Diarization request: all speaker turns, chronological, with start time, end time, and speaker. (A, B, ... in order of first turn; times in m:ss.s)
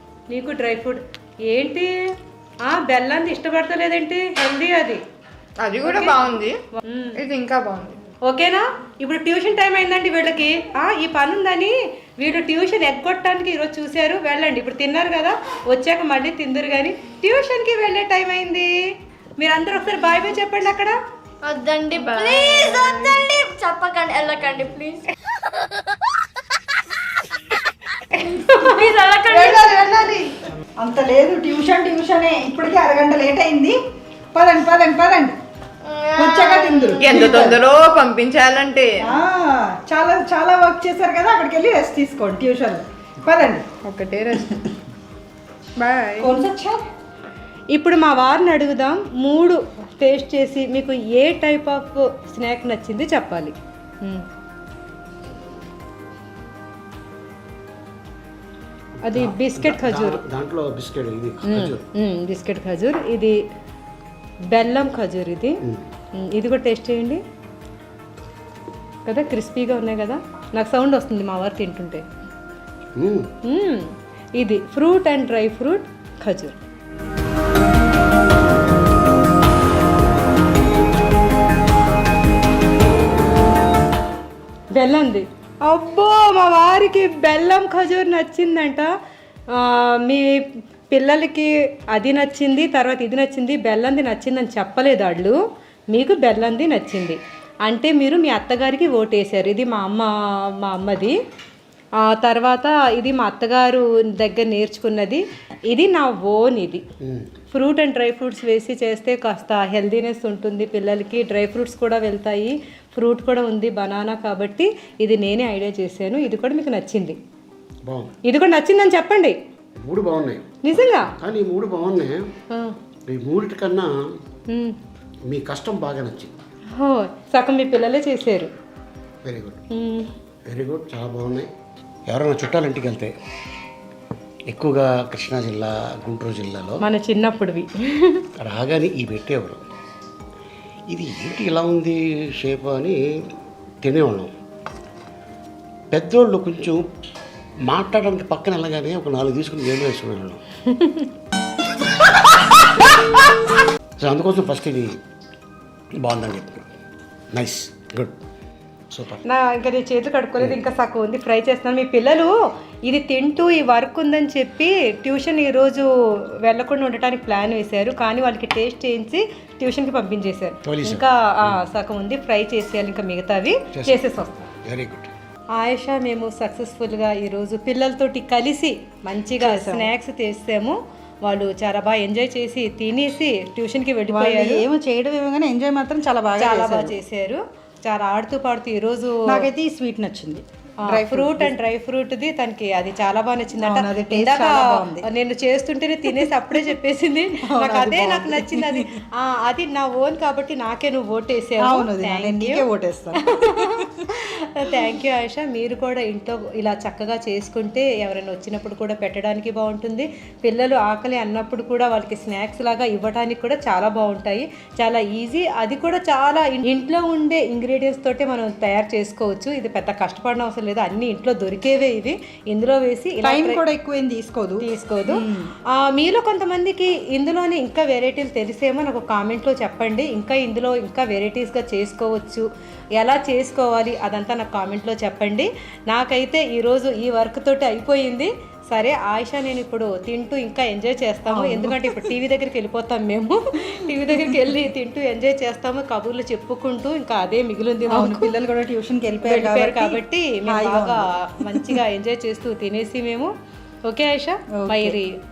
0:00.3-0:02.0 A
0:02.6-0:05.0 A
0:05.6-0:06.6 B
0:05.8-0:06.2 A
0:06.8-0:07.2 A
0:07.2-0:08.0 B
0:08.2-0:18.7 A
0:19.4-0:21.0 A
0:21.5-0:25.0 C
0:22.0-0:23.1 B
0:28.4-0:29.9 C
0:29.3-0:33.8 D
0:34.4-0:35.4 D
0:35.8-0:37.3 C
0:36.2-0:37.6 D
0:37.0-0:39.0 B
0:39.0-0:43.7 D
0:43.8-0:44.7 B
0:45.8-0:46.4 B
0:46.2-0:46.9 D
0:47.7-0:54.2 A
0:59.0-1:01.8 E
0:59.1-1:00.2 A
1:01.5-1:03.4 A
1:04.5-1:05.6 A
1:06.2-1:07.2 A
1:09.1-1:12.0 A
1:13.0-1:13.3 E
1:13.4-1:16.6 A
1:24.7-1:28.9 A
1:29.5-1:35.4 A
1:35.9-1:40.1 A
1:40.6-1:41.2 A
1:42.0-1:46.8 A
1:47.0-1:47.3 E
1:47.5-1:57.2 A
1:57.8-1:58.1 E
1:58.3-1:59.4 A
1:59.8-2:00.5 E
2:00.6-2:01.1 A
2:01.2-2:02.3 E
2:03.1-2:04.0 E
2:05.3-2:06.3 E
2:06.8-2:08.5 A
2:09.2-2:09.6 E
2:09.7-2:10.1 A
2:10.5-2:11.5 E
2:12.1-2:13.1 E
2:14.5-2:16.8 E
2:16.8-2:18.2 A
2:18.4-2:19.6 E
2:20.9-2:23.0 E
2:23.8-2:24.3 E
2:25.9-2:26.8 E
2:27.7-2:30.4 E
2:30.7-2:31.1 A
2:34.0-2:35.0 E
2:36.0-2:36.7 E
2:37.3-2:38.2 E
2:38.9-2:39.2 E
2:39.3-2:42.3 A
2:42.9-2:54.5 A
2:50.6-2:51.6 E
2:53.8-2:54.0 E
2:54.6-2:55.1 E
2:55.6-3:04.6 A
2:59.4-2:59.9 D
3:04.1-3:07.0 D
3:06.4-3:09.4 A
3:09.3-3:11.5 D
3:10.9-3:22.6 A
3:13.6-3:15.0 D
3:17.5-3:19.0 D
3:21.6-3:23.9 D
3:23.3-3:43.6 A
3:43.2-3:45.5 D
3:44.6-3:52.5 A
3:53.0-4:08.3 A
4:01.3-4:02.1 D
4:04.1-4:04.4 D
4:07.9-4:11.8 D
4:09.2-4:13.3 A
4:13.9-4:15.1 A
4:14.6-4:15.0 D